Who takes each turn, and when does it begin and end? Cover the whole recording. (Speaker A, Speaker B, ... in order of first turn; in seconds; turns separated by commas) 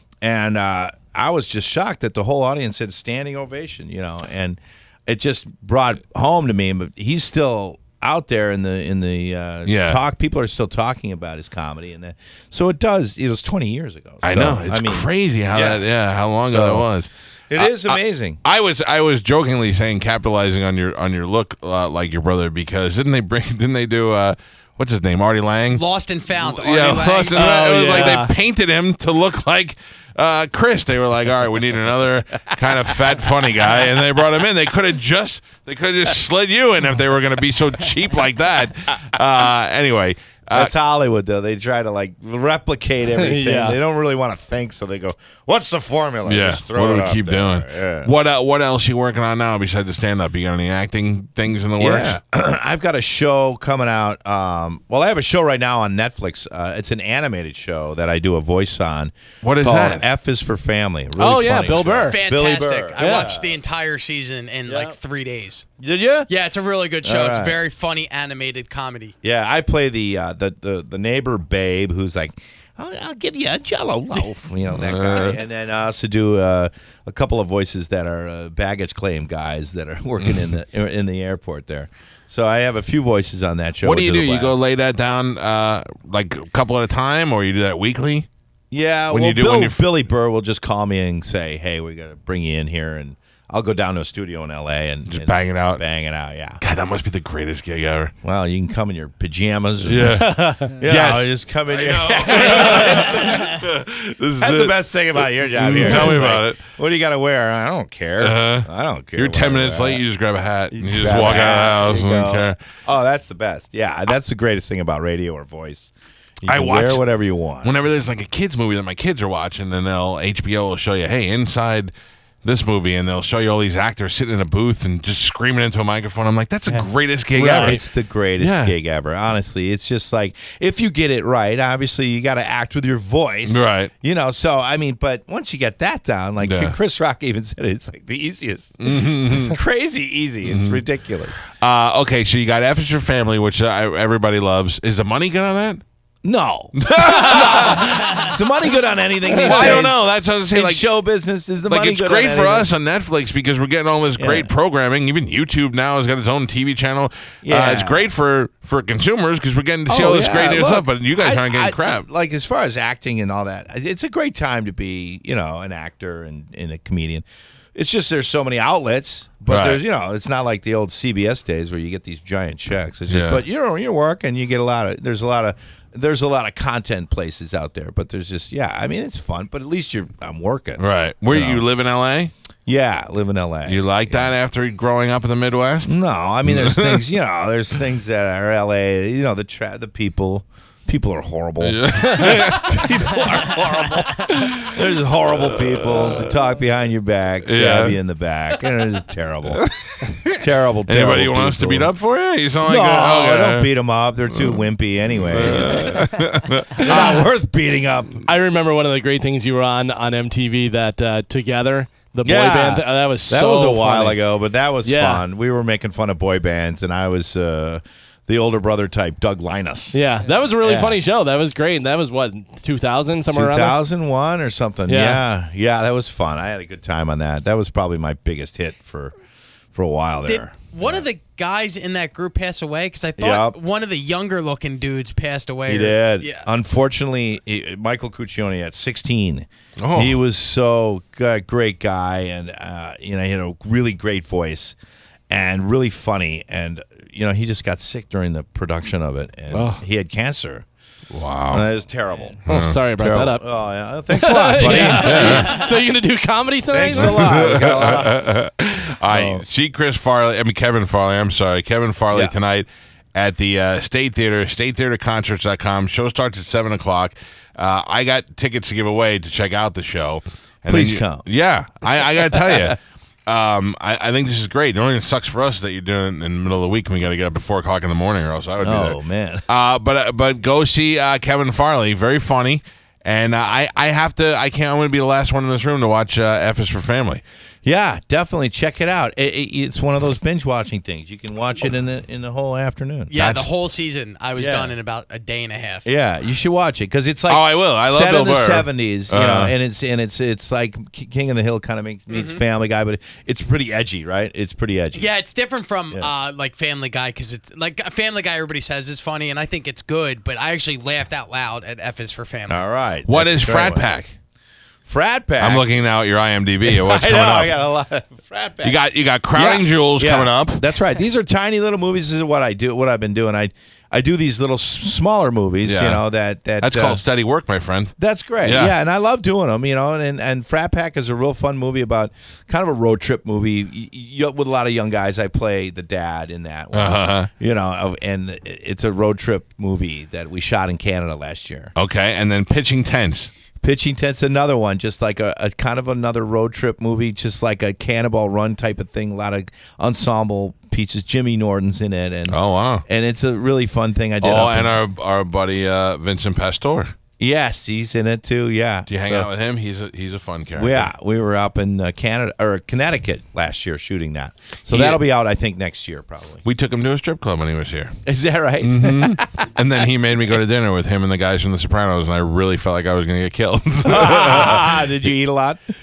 Speaker A: 0.2-15.8, Speaker B: 9.7-10.0, Speaker B: 14.2-25.8, Speaker A: 16.4-16.9, Speaker A: 17.5-18.4, Speaker C: 25.7-27.6, Speaker B: 26.4-40.7, Speaker D: 27.3-28.3, Speaker A: 40.5-48.1, Speaker D: 43.2-43.8, Speaker B: 46.2-52.2, Speaker A: 51.8-63.6, Speaker B: 59.4-60.1, Speaker D: 61.2-62.2, Speaker C: 62.0-65.7, Speaker D: 63.0-63.3, Speaker A: 64.7-65.0, Speaker A: 65.8-66.3, Speaker C: 66.3-69.2, Speaker A: 67.0-67.6, Speaker A: 69.2-84.6, Speaker B: 74.7-75.4, Speaker B: 83.8-88.3, Speaker A: 88.7-96.6, Speaker B: 89.1-89.8, Speaker B: 95.1-95.8, Speaker B: 96.6-98.1, Speaker A: 98.2-103.7, Speaker B: 99.8-104.8, Speaker A: 104.4-110.0, Speaker B: 105.4-106.6, Speaker B: 108.2-112.6, Speaker A: 110.7-117.7, Speaker B: 116.5-117.0, Speaker B: 117.6-121.9, Speaker B: 122.4-127.8, Speaker A: 126.7-141.4, Speaker D: 127.4-127.8, Speaker B: 128.4-128.8, Speaker B: 133.5-133.9, Speaker B: 136.4-136.8, Speaker B: 138.8-139.6, Speaker B: 140.4-140.8, Speaker B: 141.4-145.8, Speaker A: 146.2-152.7, Speaker B: 146.8-148.4, Speaker B: 149.3-150.8, Speaker B: 151.7-162.1, Speaker A: 154.2-154.5, Speaker A: 157.4-158.1, Speaker A: 159.9-181.7, Speaker B: 169.5-169.8, Speaker B: 173.1-173.4, Speaker B: 180.8-182.3, Speaker A: 182.7-184.3, Speaker B: 183.7-187.1, Speaker A: 185.9-201.9, Speaker B: 191.6-196.3, Speaker B: 197.4-198.0, Speaker B: 199.6-203.7, Speaker A: 202.6-208.2, Speaker B: 204.3-204.7, Speaker B: 205.2-207.2, Speaker D: 208.3-214.2, Speaker A: 212.2-220.1, Speaker D: 214.8-215.2, Speaker D: 219.9-223.8, Speaker A: 220.6-221.0, Speaker A: 223.3-229.1, Speaker D: 224.9-225.2, Speaker A: 229.7-231.1, Speaker C: 230.2-236.5, Speaker A: 233.2-233.6, Speaker A: 235.7-244.8, Speaker B: 239.8-240.2, Speaker A: 245.3-250.7, Speaker D: 249.5-249.8, Speaker B: 251.1-251.7, Speaker A: 251.5-255.7, Speaker B: 252.5-252.8, Speaker D: 252.5-253.4, Speaker D: 254.1-257.4, Speaker B: 254.6-255.6, Speaker A: 256.7-258.3, Speaker B: 256.9-287.2, Speaker A: 259.1-259.4, Speaker A: 270.7-271.3, Speaker A: 272.0-272.7, Speaker A: 278.6-279.4, Speaker A: 287.6-293.1, Speaker C: 293.1-295.9, Speaker B: 293.1-293.5, Speaker A: 294.4-294.7, Speaker A: 295.9-305.1, Speaker B: 297.3-299.5, Speaker C: 302.1-302.4, Speaker C: 305.0-312.6, Speaker A: 312.5-313.8, Speaker B: 313.1-314.1, Speaker A: 314.9-315.6, Speaker B: 315.4-317.5, Speaker A: 316.6-318.8, Speaker B: 318.6-320.6, Speaker A: 319.3-327.0, Speaker B: 325.6-326.0, Speaker B: 326.6-328.8, Speaker A: 328.0-341.7, Speaker B: 336.7-337.3, Speaker B: 341.8-343.3, Speaker A: 343.6-354.8, Speaker B: 352.3-352.9, Speaker B: 354.2-356.9, Speaker A: 357.2-359.3, Speaker B: 358.9-360.9, Speaker A: 360.5-366.4, Speaker B: 364.7-365.0, Speaker B: 366.4-368.0, Speaker A: 368.0-369.8, Speaker B: 368.6-374.9, Speaker A: 373.9-375.6